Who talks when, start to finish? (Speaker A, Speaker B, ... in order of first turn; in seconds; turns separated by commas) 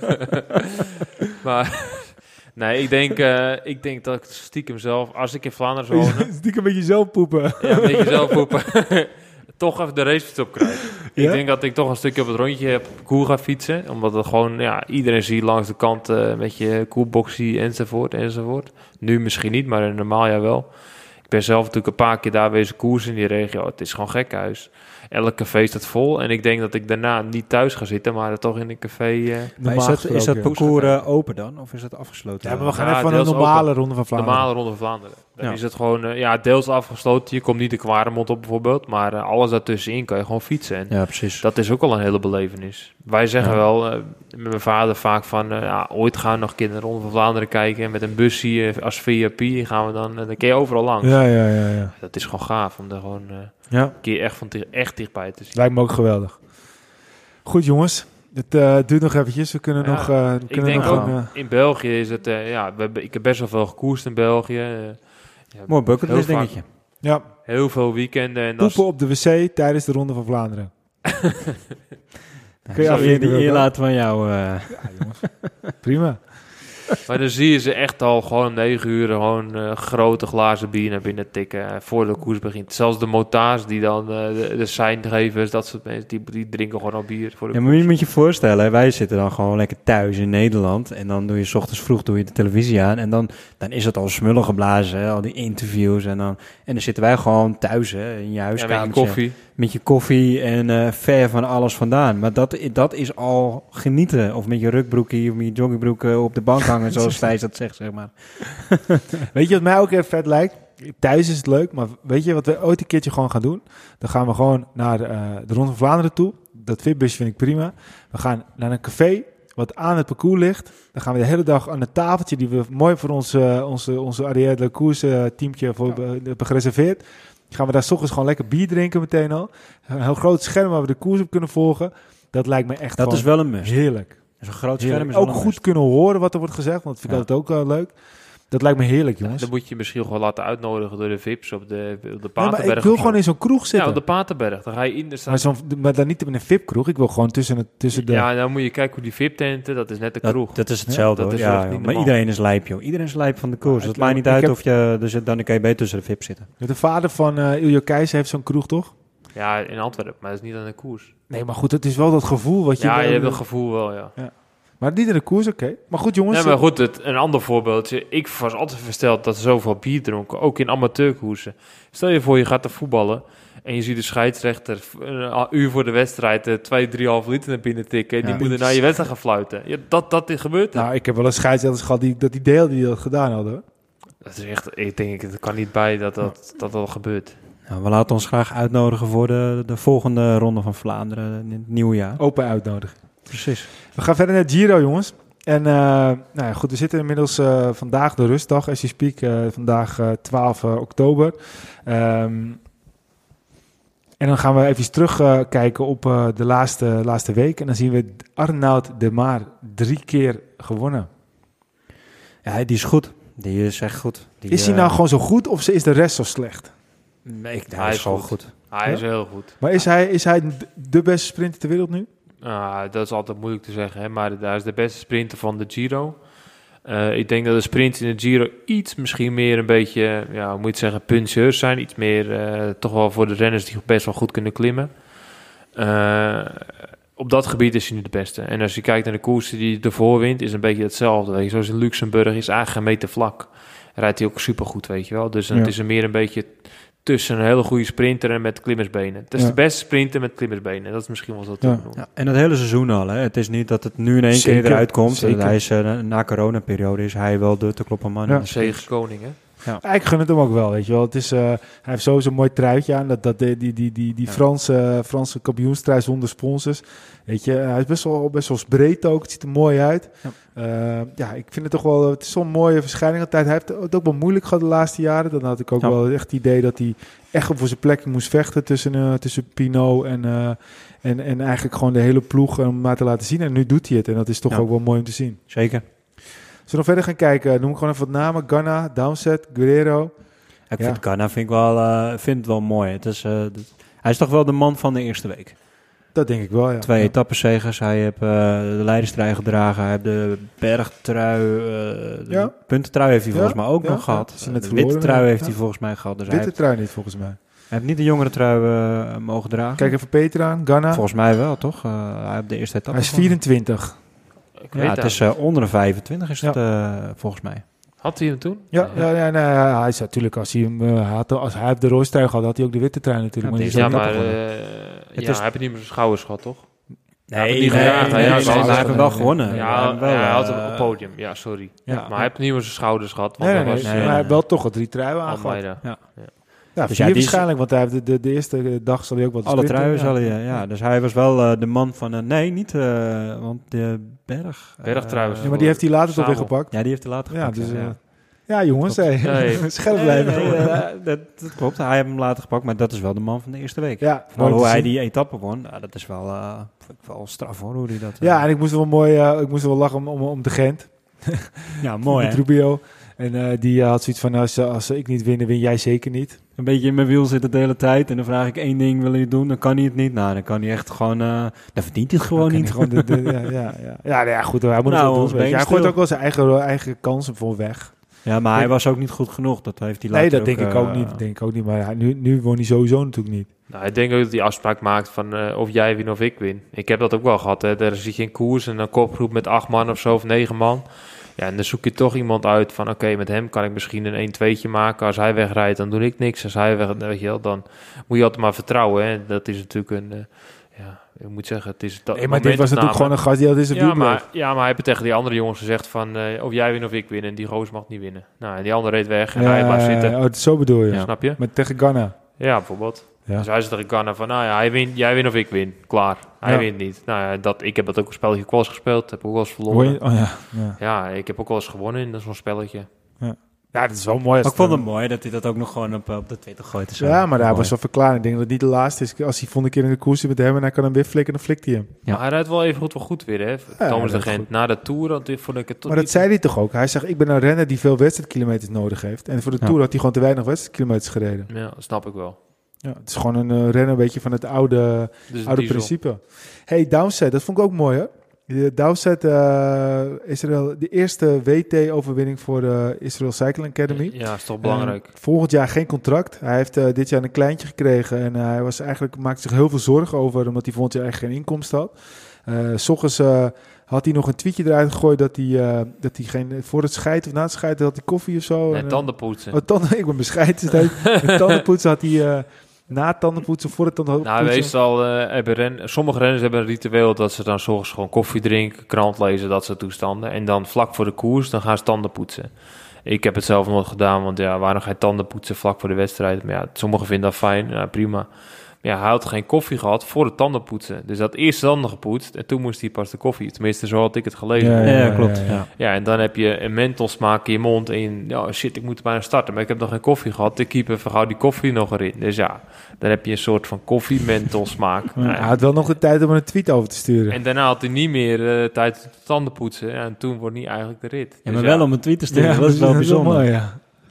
Speaker A: 1.4-6.3, Speaker B: 5.9-8.4, Speaker A: 7.6-29.6, Speaker B: 11.1-11.4, Speaker B: 29.6-30.5, Speaker C: 29.6-32.8, Speaker A: 30.4-31.1, Speaker B: 32.4-34.5, Speaker A: 32.8-55.5, Speaker C: 40.9-41.5, Speaker B: 51.0-51.9, Speaker B: 55.5-56.5, Speaker B: 57.4-61.3, Speaker A: 59.8-68.8, Speaker C: 60.7-61.1, Speaker C: 65.7-66.7, Speaker B: 67.0-67.3, Speaker B: 68.6-70.7, Speaker C: 72.7-75.5, Speaker B: 72.7-73.8, Speaker A: 72.8-73.2, Speaker B: 74.7-76.6, Speaker A: 77.1-87.9, Speaker C: 87.5-109.0, Speaker A: 98.6-99.4, Speaker B: 106.9-107.2, Speaker B: 109.3-139.5, Speaker C: 133.0-135.6, Speaker A: 139.2-145.5, Speaker B: 142.4-144.0, Speaker B: 145.3-148.3, Speaker A: 147.9-152.1, Speaker C: 150.2-156.5, Speaker B: 153.6-154.6, Speaker B: 156.6-158.9, Speaker A: 159.3-161.1, Speaker B: 161.3-166.6, Speaker A: 162.8-164.2, Speaker A: 166.3-180.9, Speaker B: 178.3-178.8, Speaker B: 180.7-183.6, Speaker A: 184.2-187.3, Speaker C: 187.7-192.2, Speaker B: 192.2-193.3, Speaker C: 193.3-193.7, Speaker B: 193.9-202.6, Speaker B: 204.2-211.1, Speaker C: 212.4-215.0, Speaker B: 214.5-216.7, Speaker C: 217.2-218.6, Speaker A: 217.8-219.6, Speaker B: 218.8-222.1, Speaker A: 222.4-226.3, Speaker A: 226.8-235.1, Speaker A: 235.7-252.0, Speaker C: 251.9-259.8, Speaker B: 254.3-255.6, Speaker A: 258.5-259.4, Speaker B: 259.8-285.4, Speaker C: 284.5-285.8, Speaker B: 286.7-290.1, Speaker C: 290.7-295.6, Speaker B: 290.8-291.0, Speaker B: 296.1-297.1, Speaker C: 296.8-306.6, Speaker B: 302.3-307.4, Speaker C: 307.7-309.9, Speaker B: 309.8-311.1, Speaker C: 310.9-313.4, Speaker B: 312.9-314.0, Speaker A: 314.6-315.3, Speaker C: 314.7-317.6, Speaker A: 318.0-319.1, Speaker B: 318.7-324.2, Speaker C: 323.4-324.4, Speaker A: 323.7-326.7, Speaker C: 325.2-325.4, Speaker C: 327.3-330.9, Speaker B: 327.4-329.8, Speaker A: 327.4-334.2, Speaker B: 331.9-332.1, Speaker C: 331.9-332.3, Speaker B: 333.4-335.8, Speaker C: 333.8-334.4, Speaker A: 335.3-336.3, Speaker C: 335.8-337.4, Speaker B: 336.8-340.7, Speaker C: 339.4-345.7, Speaker A: 344.8-346.5, Speaker B: 345.4-350.9, Speaker C: 346.7-358.4, Speaker A: 349.2-350.6, Speaker B: 354.0-354.9, Speaker B: 358.2-366.4, Speaker C: 361.8-362.4, Speaker C: 366.6-373.5, Speaker B: 372.4-378.7, Speaker C: 374.9-376.0, Speaker C: 378.2-381.2, Speaker B: 380.1-383.5, Speaker A: 383.7-410.2, Speaker B: 402.1-404.3, Speaker B: 409.3-412.2, Speaker A: 411.0-411.4, Speaker A: 412.4-422.9, Speaker B: 419.7-420.8, Speaker B: 423.2-424.9, Speaker C: 424.4-427.7, Speaker B: 427.0-431.9, Speaker A: 432.1-436.3, Speaker B: 433.8-434.5, Speaker B: 435.9-441.5, Speaker A: 441.5-442.4, Speaker B: 442.8-474.7, Speaker A: 445.3-445.9, Speaker A: 453.9-455.1, Speaker A: 468.7-469.6, Speaker A: 471.2-471.6, Speaker A: 474.2-505.9, Speaker B: 494.6-495.6, Speaker C: 494.8-495.7, Speaker B: 505.2-507.4, Speaker A: 507.3-511.9, Speaker C: 511.4-513.5, Speaker B: 512.3-513.8